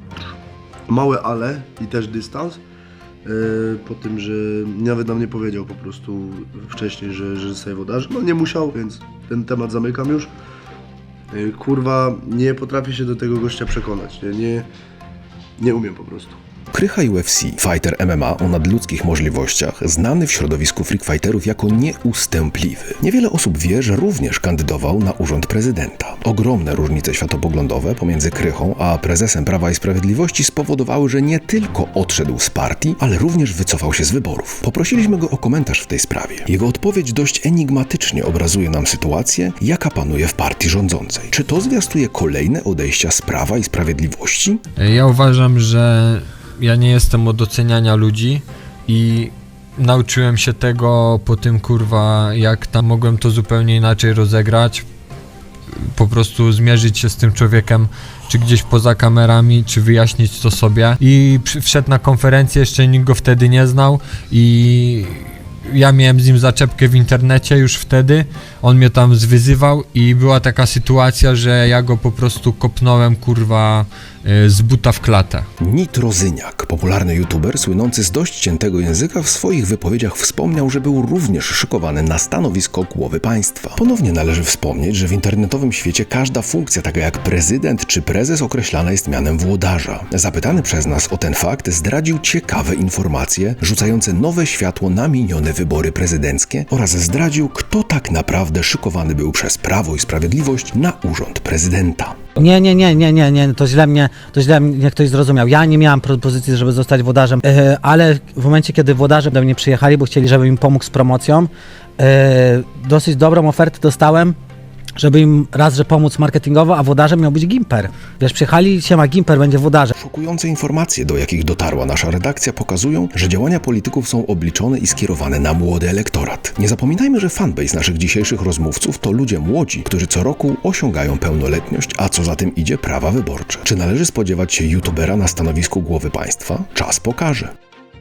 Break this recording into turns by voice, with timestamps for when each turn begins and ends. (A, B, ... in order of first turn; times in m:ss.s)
0:00.9-0:02.6 A
0:03.2-0:10.3 A
0:11.3-0:14.7 A
0:15.6-0:16.4 A
0:16.7-0:44.6 B
0:44.8-0:54.8 C
0:55.9-1:15.5 C
1:15.6-1:42.2 B
1:42.4-1:54.4 D
1:55.0-1:59.9 D
1:59.9-2:17.5 B